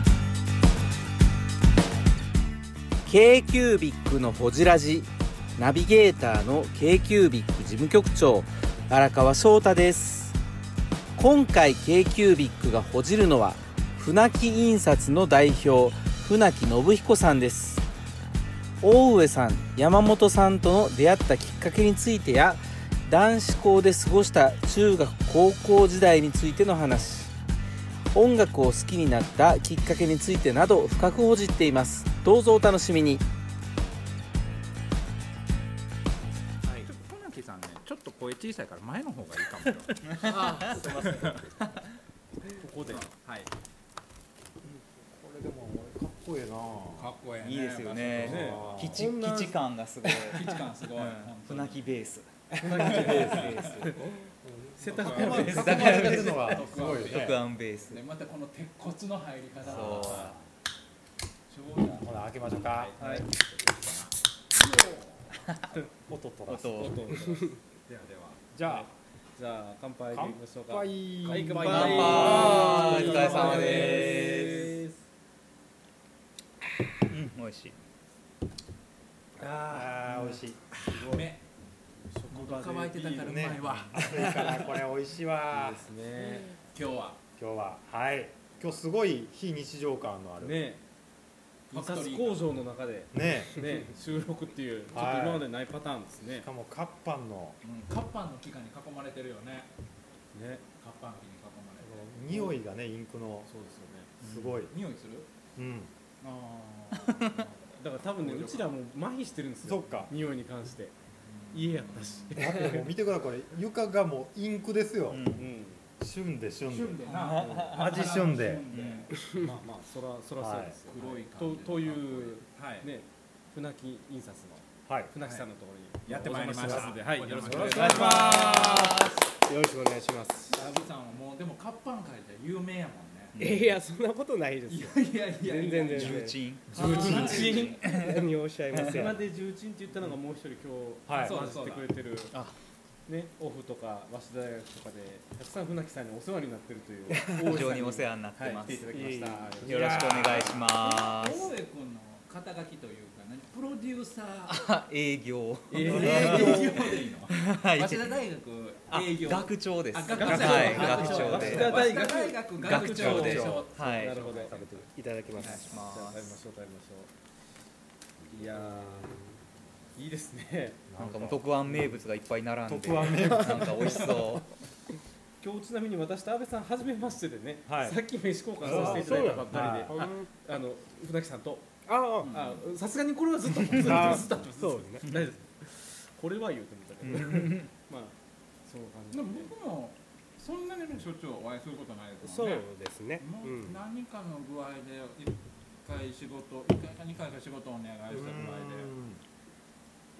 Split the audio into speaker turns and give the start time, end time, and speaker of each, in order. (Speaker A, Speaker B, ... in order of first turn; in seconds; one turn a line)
Speaker A: 3.1-10.4
Speaker A: 11.2-17.9
Speaker A: 18.8-27.3
Speaker A: 28.1-33.2
Speaker B: 36.8-41.5
Speaker C: 40.0-40.9
Speaker D: 40.3-41.1
Speaker E: 42.6-43.1
Speaker B: 42.9-43.5
Speaker F: 45.0-47.1
Speaker B: 47.0-48.6
Speaker C: 47.4-52.3
Speaker E: 48.1-49.6
Speaker F: 48.2-49.1
Speaker B: 50.0-51.9
Speaker E: 52.6-54.0
Speaker F: 52.6-53.7
Speaker D: 52.8-54.3
Speaker B: 53.0-53.7
Speaker F: 54.4-57.4
Speaker E: 54.8-56.9
Speaker B: 54.9-57.4
Speaker C: 55.4-58.0
Speaker B: 57.9-60.3
Speaker C: 59.6-60.4
Speaker F: 59.7-60.4
Speaker B: 61.5-65.4
Speaker F: 62.0-63.2
Speaker E: 63.0-63.2
Speaker F: 66.1-66.9
Speaker E: 66.5-67.6
Speaker C: 66.5-67.0
Speaker B: 67.9-68.5
Speaker F: 68.5-68.9
Speaker E: 68.6-75.0
Speaker F: 70.1-73.0
Speaker B: 71.2-74.7
Speaker C: 71.6-74.6
Speaker C: 77.1-77.7
Speaker F: 79.4-80.8
Speaker E: 80.0-81.2
Speaker B: 80.7-81.4
Speaker E: 82.0-83.6
Speaker B: 82.3-84.5
Speaker F: 83.2-85.9
Speaker E: 85.5-86.6
Speaker B: 86.7-87.2
Speaker F: 87.4-90.6
Speaker E: 90.4-90.8
Speaker B: 91.7-92.5
Speaker E: 91.7-96.5
Speaker F: 93.1-93.7
Speaker F: 94.9-95.5
Speaker F: 96.3-97.6
Speaker B: 97.6-99.7
Speaker E: 100.3-100.7
Speaker B: 100.7-102.1
Speaker E: 101.8-102.6
Speaker F: 102.1-103.5
Speaker E: 103.5-104.1
Speaker F: 104.2-104.7
Speaker B: 104.2-105.3
Speaker F: 105.5-105.9
Speaker B: 106.2-108.7
Speaker C: 106.9-107.4
Speaker E: 107.8-110.9
Speaker F: 109.6-110.1
Speaker B: 111.3-112.6
Speaker E: 111.5-112.9
Speaker F: 112.3-115.5
Speaker C: 115.1-115.5
Speaker E: 115.3-115.8
Speaker F: 116.0-117.1
Speaker B: 116.7-119.2
Speaker E: 117.1-117.8
Speaker C: 117.1-117.7
Speaker F: 117.7-118.7
Speaker C: 118.7-119.1
Speaker E: 119.3-128.7
Speaker F: 120.3-120.8
Speaker B: 120.9-122.9
Speaker F: 124.9-125.1
Speaker B: 126.0-129.0
Speaker F: 126.7-127.0
Speaker D: 127.5-130.6
Speaker C: 127.7-129.2
Speaker B: 130.5-133.3
Speaker C: 133.3-133.8
Speaker D: 133.4-136.4
Speaker B: 134.7-137.8
Speaker C: 135.9-138.8
Speaker E: 136.7-137.8
Speaker D: 137.8-139.2
Speaker E: 138.7-142.4
Speaker F: 141.1-141.4
Speaker B: 141.2-141.9
Speaker E: 143.1-150.5
Speaker C: 147.3-151.5
Speaker D: 148.9-149.6
Speaker B: 149.6-154.7
Speaker F: 149.7-150.4
Speaker C: 154.5-158.2
Speaker E: 155.7-156.9
Speaker B: 155.7-164.8
Speaker C: 158.9-161.9
Speaker E: 160.1-167.1
Speaker C: 162.5-164.2
Speaker F: 163.1-163.7
Speaker D: 164.8-165.7
Speaker B: 165.4-165.7
Speaker C: 165.6-166.3
Speaker E: 168.3-169.2
Speaker D: 168.8-169.3
Speaker E: 169.9-170.9
Speaker F: 170.9-172.0
Speaker C: 171.0-174.4
Speaker F: 172.7-174.4
Speaker E: 175.4-181.7
Speaker F: 177.7-178.0
Speaker F: 178.6-180.0
Speaker D: 178.7-180.3
Speaker D: 181.9-182.4
Speaker B: 182.2-182.7
Speaker E: 182.3-189.5
Speaker D: 183.8-185.1
Speaker C: 187.1-187.7
Speaker B: 189.1-198.9
Speaker D: 192.2-193.8
Speaker F: 198.1-199.2